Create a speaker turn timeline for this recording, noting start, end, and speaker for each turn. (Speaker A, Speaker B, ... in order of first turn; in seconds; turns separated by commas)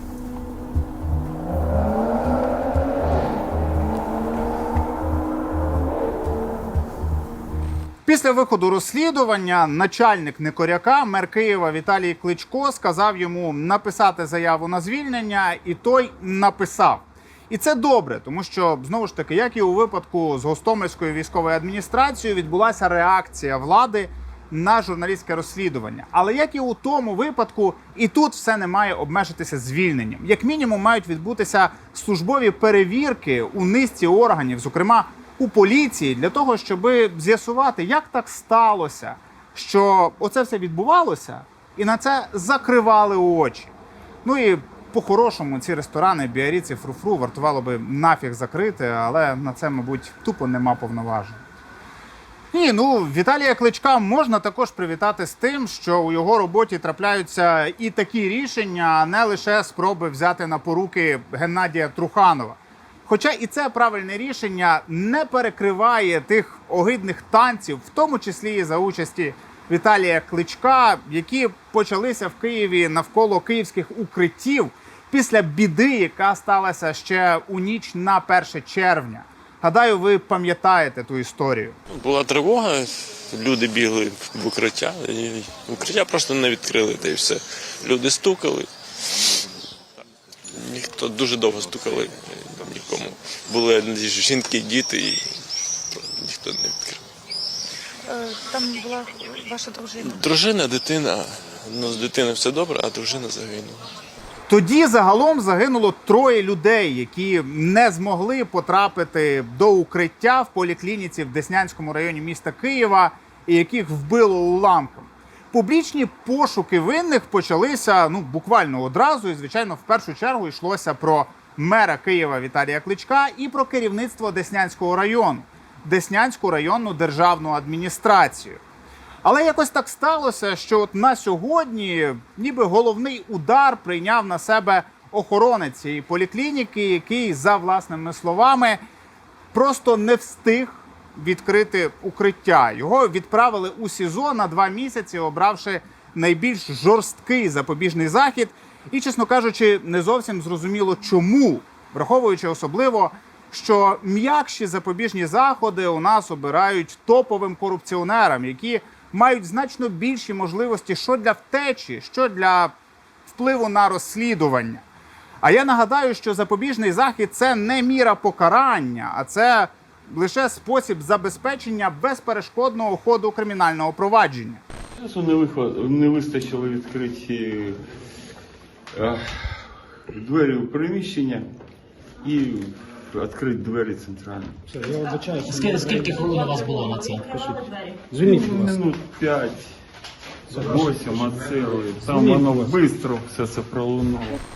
Speaker A: 8.1-43.7, Speaker A: 44.2-51.4, Speaker A: 52.5-81.8, Speaker B: 81.9-88.7, Speaker B: 90.5-95.3, Speaker B: 96.0-97.0, Speaker C: 98.1-100.2, Speaker B: 100.0-103.9, Speaker A: 104.5-128.6, Speaker A: 129.2-138.8, Speaker A: 139.5-162.7, Speaker A: 163.3-164.8, Speaker A: 165.4-174.6, Speaker D: 175.0-177.8, Speaker D: 178.9-181.5, Speaker D: 182.2-184.6, Speaker E: 185.2-187.3, Speaker D: 188.2-189.7, Speaker D: 190.5-194.4